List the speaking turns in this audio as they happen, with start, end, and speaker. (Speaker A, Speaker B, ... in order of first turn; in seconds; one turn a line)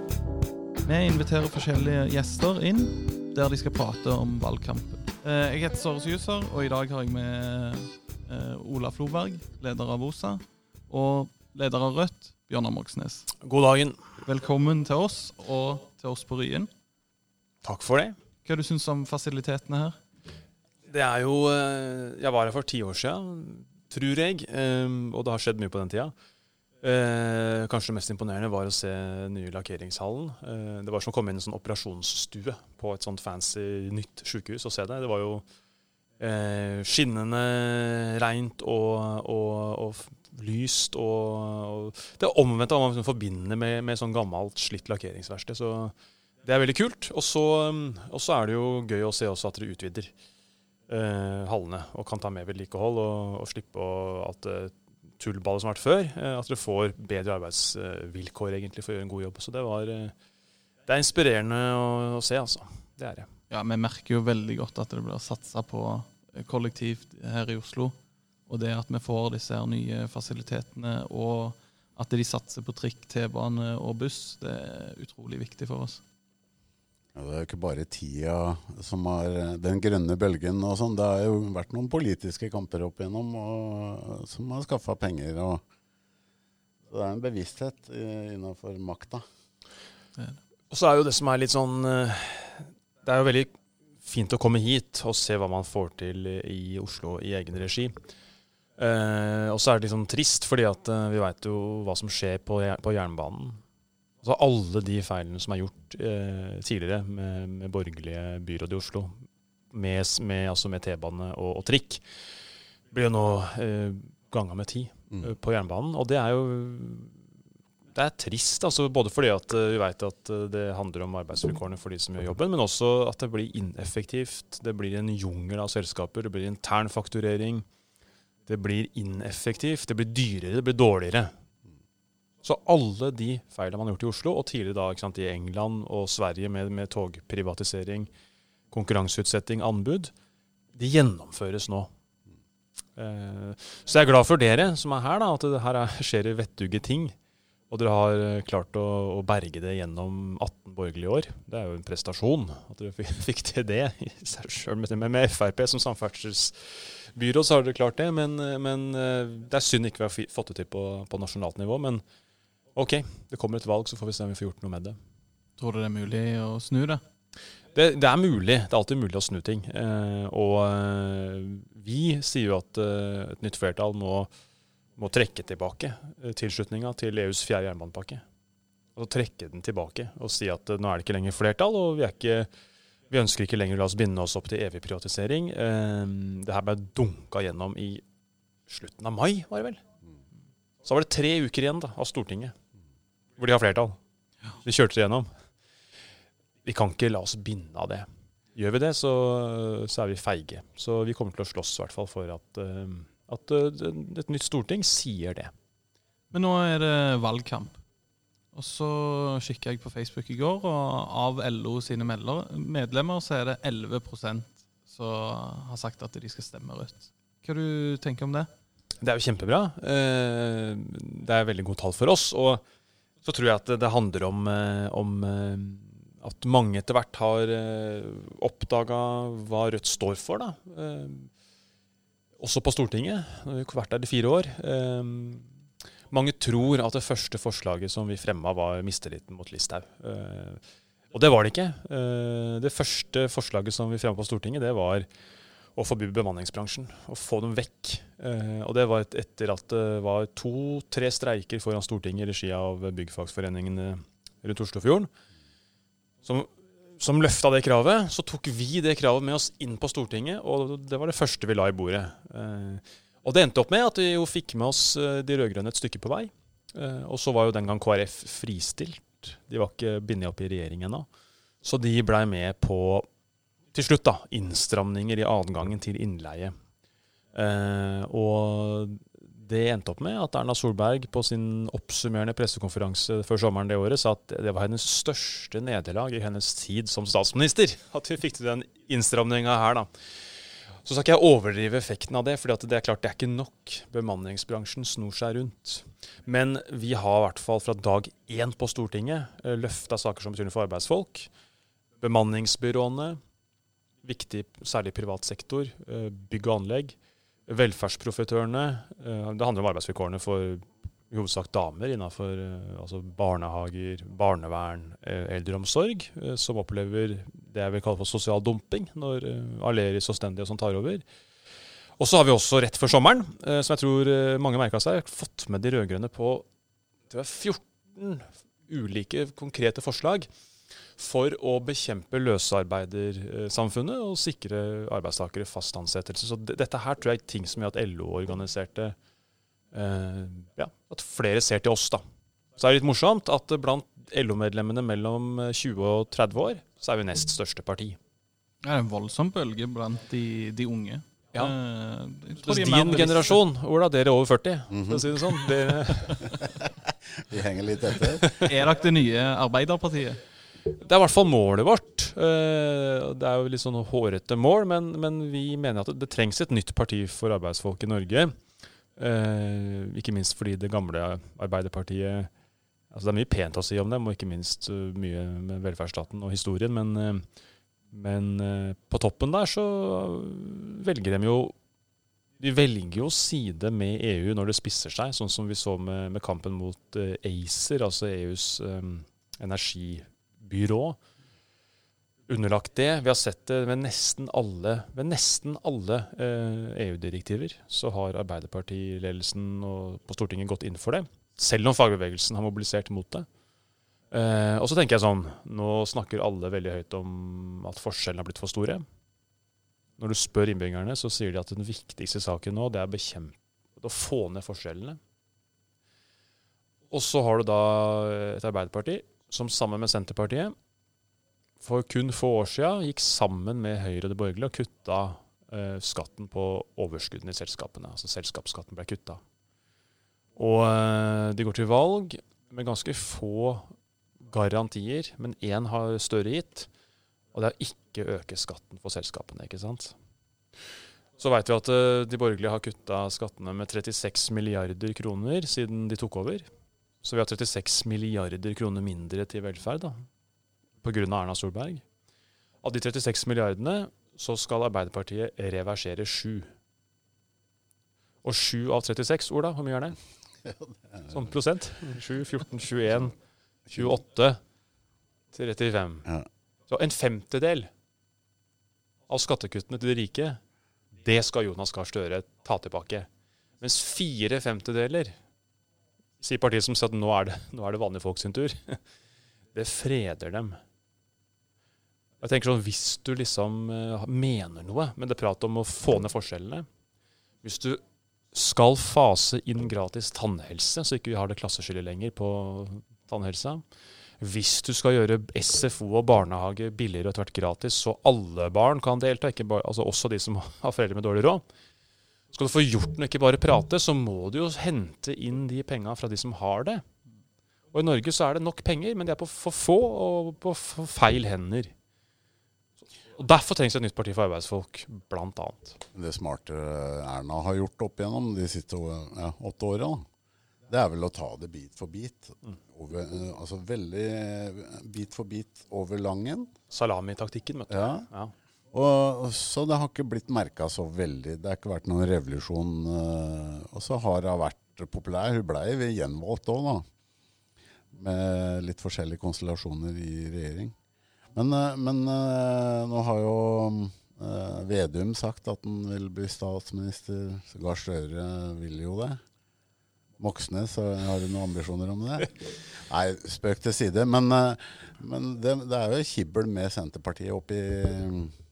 Speaker A: 0.8-13.3
Speaker B: 13.4-14.0
Speaker A: 14.2-16.7
Speaker B: 17.6-18.2
Speaker A: 18.4-20.0
Speaker B: 20.9-26.1
Speaker B: 26.8-35.4
Speaker B: 36.2-50.1
Speaker B: 50.9-60.1
Speaker B: 60.9-63.3
Speaker A: 63.5-68.0
Speaker A: 68.5-76.0
Speaker C: 77.1-85.6
Speaker C: 86.9-89.2
Speaker B: 90.7-97.9
Speaker B: 98.8-103.6
Speaker B: 104.2-109.2
Speaker B: 109.7-112.0
Speaker B: 112.9-117.2
Speaker B: 118.0-127.7
Speaker B: 128.5-131.3
Speaker B: 132.4-138.1
Speaker B: 138.7-140.1
Speaker B: 140.7-141.9
Speaker B: 143.0-147.2
Speaker B: 147.7-162.0
Speaker B: 162.7-165.0
Speaker A: 165.6-167.0
Speaker B: 167.7-174.3
Speaker B: 175.0-178.2
Speaker B: 178.9-182.5
Speaker B: 183.1-188.0
Speaker B: 188.7-189.8
Speaker B: 190.8-192.5
Speaker B: 193.4-194.0
Speaker B: 194.6-195.3
Speaker B: 196.6-205.5
Speaker A: 206.3-207.8
Speaker A: 208.5-218.5
Speaker B: 219.0-222.6
Speaker B: 223.2-231.3
Speaker B: 232.4-235.5
Speaker B: 236.1-240.6
Speaker B: 241.1-245.1
Speaker B: 245.8-255.1
Speaker B: 256.2-271.1
Speaker B: 271.6-273.1
Speaker B: 273.7-276.5
Speaker B: 277.3-289.9
Speaker B: 290.8-301.3
Speaker B: 302.0-303.2
Speaker B: 304.0-307.0
Speaker B: 307.5-321.0
Speaker B: 322.0-326.4
Speaker B: 327.1-330.3
Speaker B: 331.0-338.9
Speaker B: 339.7-342.0
Speaker B: 342.6-348.0
Speaker A: 348.6-353.4
Speaker B: 352.4-356.4
Speaker C: 354.7-355.1
Speaker C: 356.4-358.3
Speaker A: 358.3-360.2
Speaker B: 360.6-368.3
Speaker B: 369.0-372.3
Speaker B: 372.9-377.2
Speaker B: 377.9-381.6
Speaker B: 382.4-391.0
Speaker B: 392.3-403.3
Speaker B: 404.1-408.8
Speaker B: 410.0-415.0
Speaker B: 416.9-420.6
Speaker B: 421.6-429.2
Speaker B: 430.4-433.7
Speaker B: 434.2-436.7
Speaker B: 437.3-439.9
Speaker B: 441.2-446.5
Speaker B: 447.0-450.1
Speaker B: 450.8-451.8
Speaker B: 452.6-456.5
Speaker B: 458.2-460.0
Speaker C: 460.4-461.1
Speaker B: 461.1-463.2
Speaker B: 463.7-464.4
Speaker B: 465.3-466.1
Speaker B: 466.7-467.7
Speaker B: 469.1-470.4
Speaker B: 471.0-473.1
Speaker B: 473.6-475.2
Speaker B: 476.2-478.8
Speaker B: 479.5-480.6
Speaker B: 482.2-486.7
Speaker B: 487.4-487.8
Speaker B: 488.3-493.6
Speaker B: 494.2-501.4
Speaker B: 502.3-506.8
Speaker B: 507.7-511.7
Speaker B: 513.1-515.8
Speaker C: 515.9-520.0
Speaker C: 520.7-526.5
Speaker B: 526.7-528.3
Speaker C: 527.7-528.1
Speaker C: 528.7-536.9
Speaker C: 537.9-540.8
Speaker C: 541.3-549.2
Speaker C: 550.2-558.4